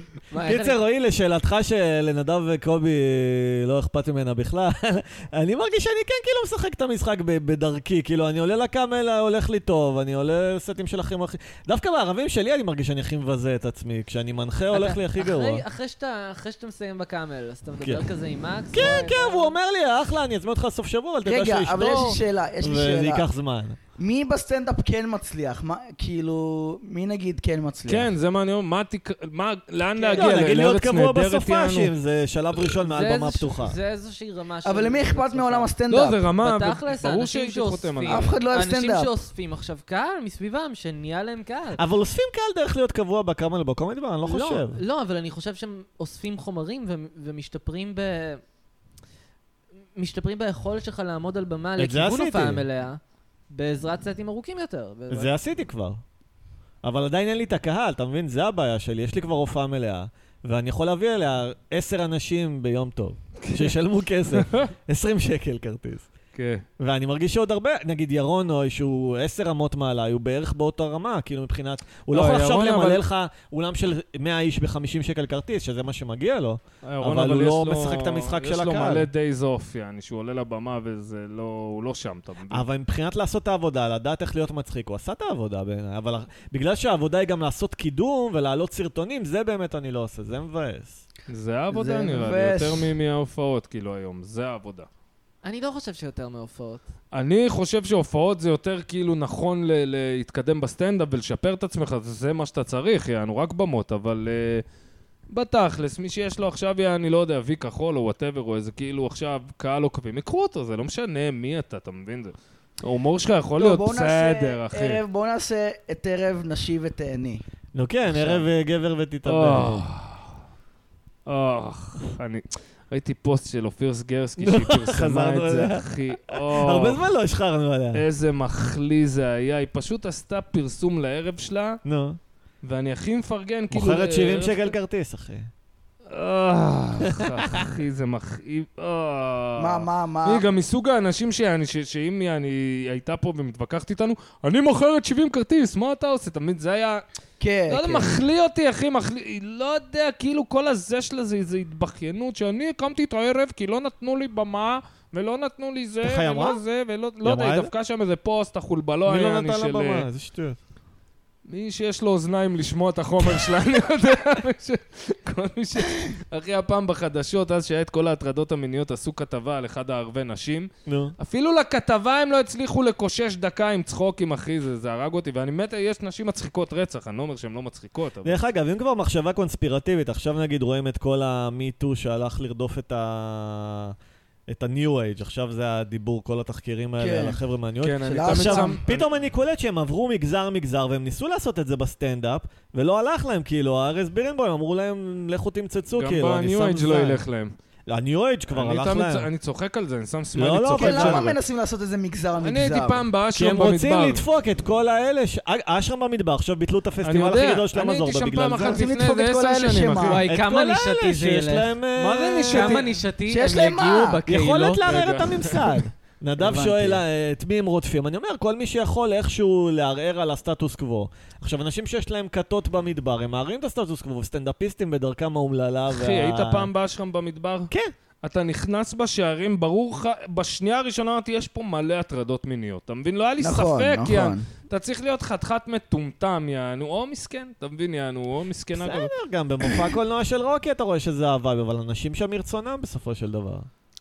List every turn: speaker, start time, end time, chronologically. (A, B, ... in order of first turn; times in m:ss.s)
0:00.3-0:00.8 A
0:00.4-0:15.6 B
0:14.7-0:19.6 A
0:18.7-0:23.8 B
0:21.2-0:23.2 C
0:24.0-0:28.1 C
0:27.9-0:31.9 D
0:30.0-0:30.5 A
0:30.1-0:33.8 B
0:32.8-0:35.7 A
0:34.6-0:36.2 C
0:35.9-0:38.4 D
0:36.4-0:41.8 A
0:38.1-0:39.1 C
0:41.8-0:44.8 B
0:44.2-0:48.4 A
0:50.0-0:53.0 A
0:51.8-0:52.6 B
0:53.5-0:55.3 A
0:55.1-0:56.0 B
0:56.8-1:06.1 B
1:03.4-1:03.7 D
1:04.3-1:04.7 D
1:06.3-1:06.6 D
1:06.8-1:19.1 B
1:12.1-1:13.0 D
1:16.8-1:22.6 D
1:22.5-1:31.0 B
1:31.3-1:34.9 D
1:31.7-1:32.9 C
1:35.4-1:36.8 A
1:37.1-1:44.6 D
1:45.3-1:55.0 D
1:53.6-1:57.4 C
1:57.7-1:59.8 B
1:58.1-1:58.4 D
1:59.2-2:00.3 D
2:01.2-2:07.0 D
2:04.4-2:08.0 B
2:07.9-2:11.8 D
2:11.8-2:12.2 B
2:12.6-2:14.7 D
2:13.7-2:15.5 B
2:16.1-2:27.0 D
2:17.1-2:17.6 B
2:19.6-2:20.4 C
2:27.4-2:28.2 C
2:27.7-2:40.1 D
2:36.0-2:36.6 B
2:37.2-2:37.7 B
2:39.0-2:40.6 B
2:41.5-2:58.4 D
2:50.8-2:51.1 B
2:58.2-3:03.9 B
3:04.5-3:17.2 B
3:07.0-3:07.4 C
3:07.8-3:09.1 D
3:08.0-3:08.8 C
3:15.9-3:17.5 D
3:17.9-3:19.3 B
3:18.5-3:21.3 D
3:20.3-3:21.4 B
3:20.8-3:23.0 C
3:22.4-3:24.2 D
3:23.3-3:28.8 B
3:27.0-3:30.2 D
3:28.6-3:30.2 C
3:30.0-3:31.8 A
3:30.2-3:32.9 B
3:32.0-3:33.0 D
3:32.5-3:34.9 A
3:33.3-3:34.2 C
3:34.3-3:46.7 B
3:34.8-3:35.8 D
3:36.4-3:37.0 C
3:45.9-3:47.7 D
3:48.2-3:59.1 D
3:53.4-3:54.4 C
3:58.7-4:03.7 B